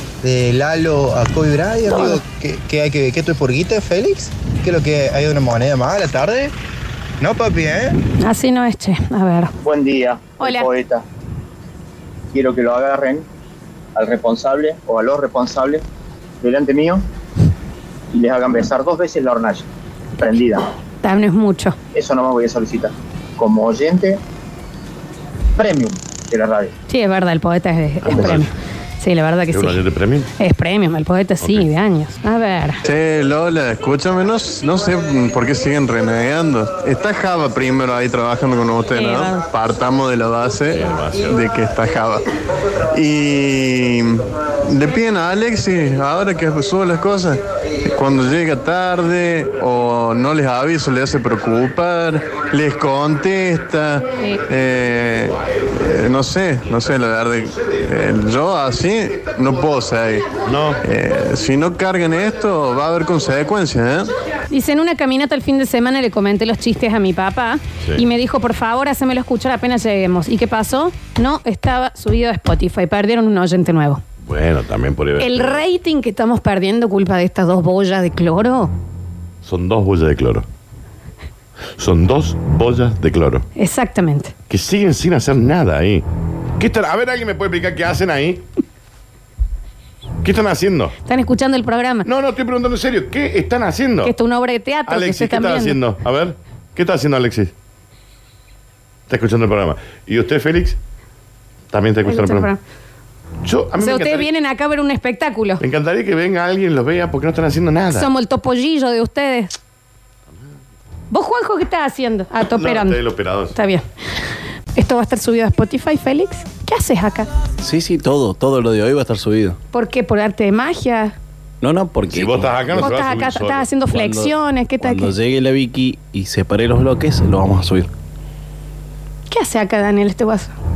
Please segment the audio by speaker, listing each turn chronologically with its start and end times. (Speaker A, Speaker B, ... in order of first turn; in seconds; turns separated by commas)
Speaker A: 0.2-6.5, Speaker B: 1.9-2.2, Speaker A: 7.2-8.0, Speaker B: 8.2-9.5, Speaker C: 9.6-11.0, Speaker B: 10.4-10.7, Speaker C: 12.3-13.2, Speaker C: 13.9-15.8, Speaker C: 16.4-17.0, Speaker C: 18.1-19.7, Speaker C: 20.2-20.6, Speaker B: 21.0-21.8, Speaker C: 21.9-24.2, Speaker C: 25.6-26.7, Speaker B: 26.9-29.8, Speaker D: 28.0-28.5, Speaker D: 29.5-30.3, Speaker B: 30.4-32.8, Speaker D: 31.4-31.7, Speaker E: 32.8-42.2, Speaker B: 39.0-39.4, Speaker D: 40.7-41.4, Speaker E: 42.9-60.3, Speaker D: 60.5-60.8, Speaker E: 60.8-64.1, Speaker B: 64.5-74.0, Speaker D: 74.2-75.6, Speaker B: 75.2-78.7, Speaker D: 79.4-80.5, Speaker D: 81.8-83.4, Speaker B: 83.5-84.3, Speaker D: 84.5-86.0, Speaker D: 86.6-88.4, Speaker D: 90.2-90.9, Speaker B: 91.0-92.1, Speaker D: 92.0-94.1, Speaker B: 94.0-95.8, Speaker D: 94.9-97.5, Speaker D: 99.1-100.8, Speaker D: 101.7-102.5, Speaker B: 102.0-102.6, Speaker D: 103.4-104.3, Speaker B: 103.8-105.6, Speaker D: 105.6-108.1, Speaker B: 107.9-109.5, Speaker B: 111.1-113.0, Speaker D: 112.5-113.5, Speaker B: 113.5-113.8, Speaker B: 114.7-117.3, Speaker F: 117.6-119.2, Speaker B: 119.7-121.2, Speaker F: 121.6-122.8, Speaker D: 122.1-123.8, Speaker B: 122.7-125.1, Speaker F: 124.9-127.8, Speaker B: 129.3-130.5